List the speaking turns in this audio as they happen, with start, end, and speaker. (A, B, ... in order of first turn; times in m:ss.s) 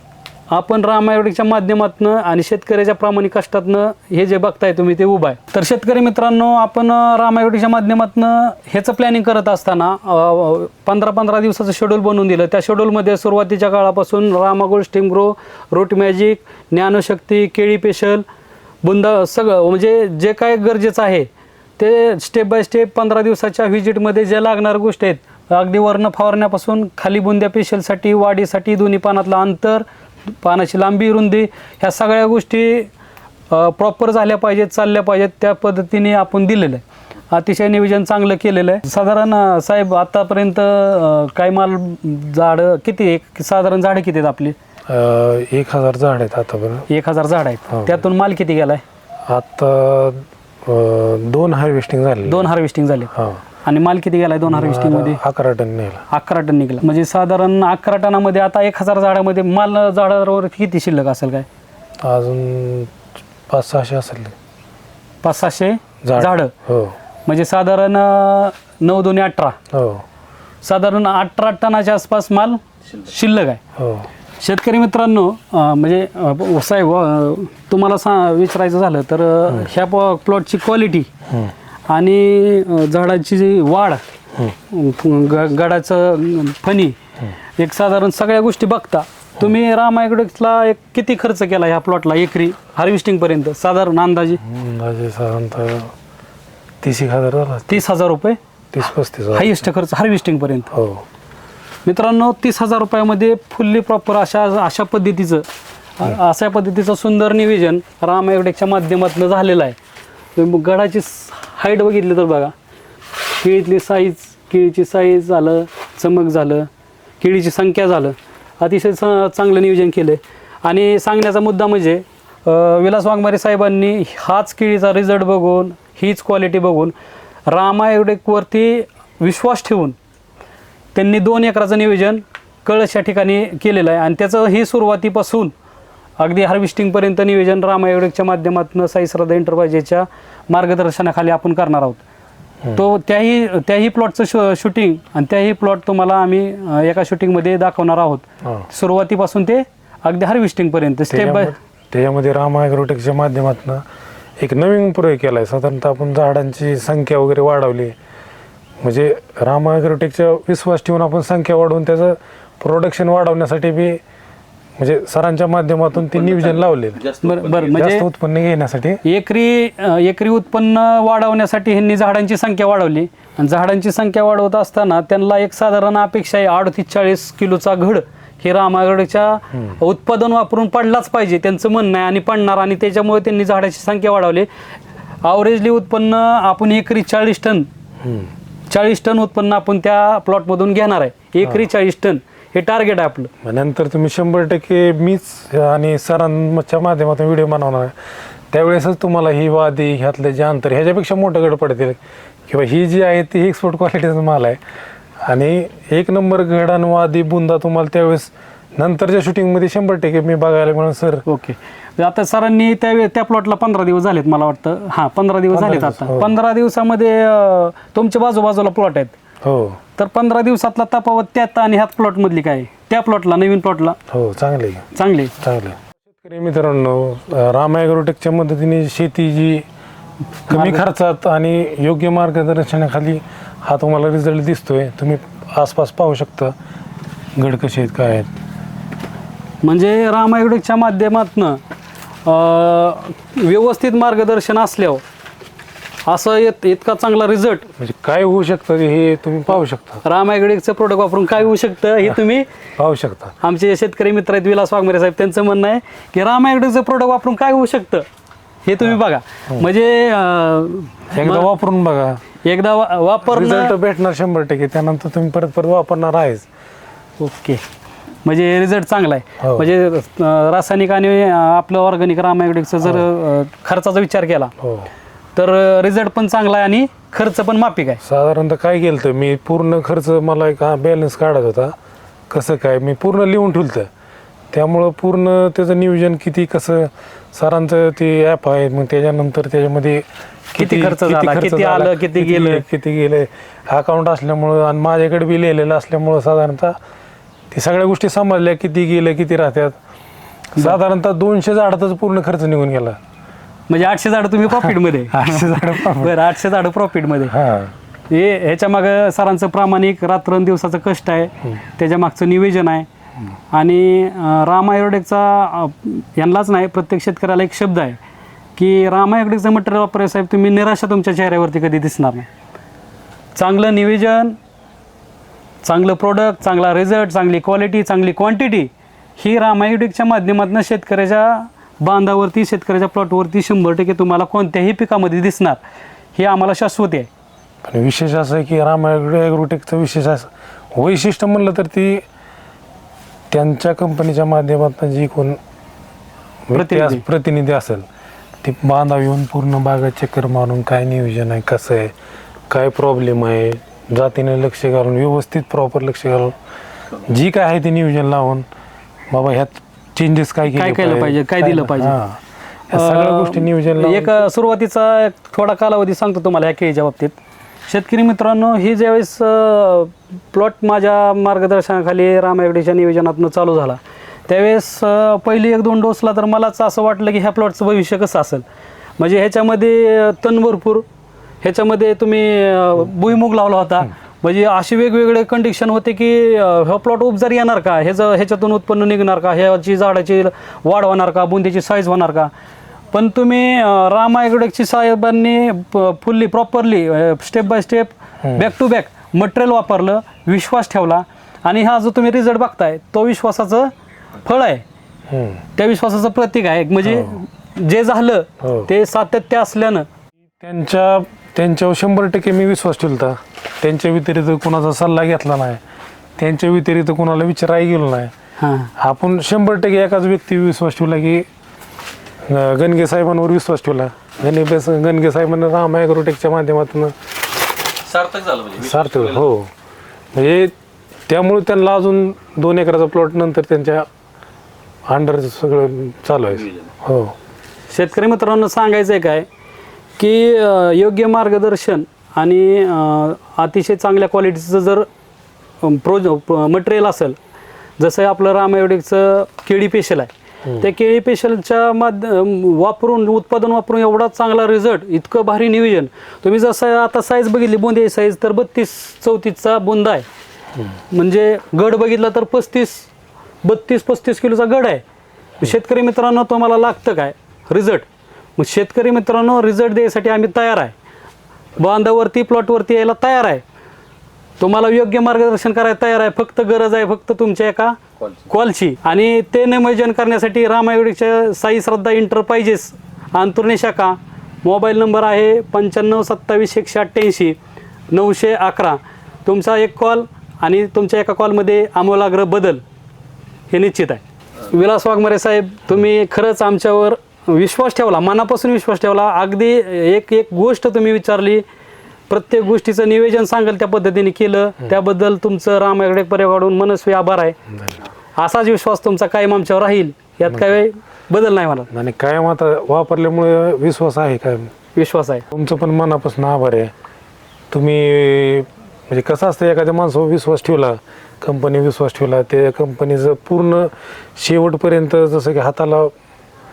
0:00.5-0:18.2 A
0:18.8-0:29.8 A
0:30.4-0:32.9 A
0:33.5-0:44.6 A
0:44.9-0:46.9 B
0:46.9-0:48.8 A
0:47.7-0:48.0 B
0:49.3-0:52.5 B
0:52.2-0:55.2 A
0:53.1-0:53.4 B
0:54.5-0:56.0 B
0:56.1-1:01.4 A
1:02.0-1:02.9 B
1:03.5-1:04.4 B
1:05.2-1:06.5 A
1:06.0-1:06.9 B
1:07.2-1:09.6 A
1:09.7-1:10.0 B
1:10.6-1:13.6 A
1:13.8-1:14.1 B
1:14.4-1:21.1 A
1:21.3-1:21.5 B
1:21.9-1:24.0 A
1:24.7-1:27.0 A
1:27.6-1:34.4 A
1:34.4-1:35.9 B
1:36.8-1:37.8 B
1:37.7-1:38.4 A
1:38.7-1:39.6 B
1:39.3-1:40.7 A
1:40.7-1:41.0 B
1:41.8-1:45.5 A
1:46.0-1:49.8 A
1:50.4-1:52.5 A
1:53.3-1:56.7 A
1:57.2-2:06.9 A
2:07.5-2:10.0 A
2:10.9-2:15.5 A
2:16.2-2:22.0 A
2:22.8-2:31.6 A
2:31.1-2:33.8 B
2:34.4-2:37.9 B
2:38.8-2:44.0 B
2:44.8-2:49.0 B
2:47.1-2:48.1 A
2:49.0-3:04.5 A
3:05.2-3:07.7 A
3:08.0-3:08.3 B
3:08.7-3:13.3 A
3:13.4-3:17.9 B
3:18.5-3:22.0 B
3:22.5-3:24.6 B
3:25.2-3:31.2 B
3:31.2-3:39.2 A
3:35.5-3:36.4 B
3:39.4-3:39.8 B
3:40.0-3:44.0 A
3:44.1-3:44.9 B
3:44.9-3:45.4 A
3:45.4-3:49.6 B
3:50.5-3:50.8 A
3:50.5-3:56.5 B
3:57.4-3:58.3 B
3:59.6-4:01.6 A
4:02.2-4:05.0 A
4:06.1-4:07.7 A
4:07.8-4:10.0 B
4:10.0-4:12.5 A
4:12.8-4:13.3 B
4:13.4-4:18.0 A
4:18.6-4:21.5 A
4:21.1-4:22.2 B
4:22.4-4:23.8 A
4:23.3-4:26.5 B
4:27.2-4:27.6 A
4:28.2-4:34.5 A
4:29.4-4:29.7 B
4:34.6-4:34.9 B
4:35.4-4:38.0 A
4:38.0-4:41.8 B
4:42.3-4:43.9 B
4:44.5-4:56.8 B
4:50.6-4:52.6 A
4:57.5-4:59.8 B
5:00.6-5:03.0 B
5:03.7-5:07.4 A
5:04.5-5:06.3 B
5:07.2-5:07.7 B
5:08.1-5:12.9 A
5:13.5-5:18.0 A
5:18.6-5:22.3 A
5:23.4-5:24.4 A
5:25.6-5:35.6 A
5:36.1-5:37.1 A
5:37.6-5:42.0 B
5:43.3-5:45.4 B
5:46.5-5:47.8 B
5:46.5-5:47.0 A
5:48.4-5:51.9 B
5:52.5-5:56.4 B
5:57.1-5:58.4 B
5:59.1-6:04.2 B
6:00.5-6:02.0 A
6:02.7-6:18.4 A
6:19.0-6:20.9 A
6:21.4-6:32.3 A
6:32.9-6:44.6 A
6:38.2-6:38.5 B
6:45.1-6:45.4 B
6:45.6-6:49.8 A
6:46.8-6:47.2 B
6:48.4-6:48.7 B
6:50.4-6:55.6 B
6:56.2-6:58.1 B
6:58.4-6:58.7 A
6:58.8-7:01.2 B
7:02.3-7:06.9 B
7:08.0-7:09.5 B
7:10.1-7:10.5 B
7:11.1-7:13.9 B
7:14.9-7:17.1 B
7:17.7-7:19.3 A
7:20.0-7:24.9 A
7:25.6-7:27.2 A
7:27.8-7:40.0 A
7:40.9-7:42.9 A
7:43.4-7:44.8 A
7:45.4-7:50.7 A
7:51.6-7:53.4 A
7:54.4-8:07.4 A
8:07.9-8:12.6 A
8:13.5-8:21.4 A
8:22.1-8:27.4 A
8:27.5-8:27.8 B
8:28.2-8:31.7 A
8:31.7-8:34.5 B
8:34.8-8:35.2 A
8:35.3-8:36.7 B
8:37.5-8:45.9 B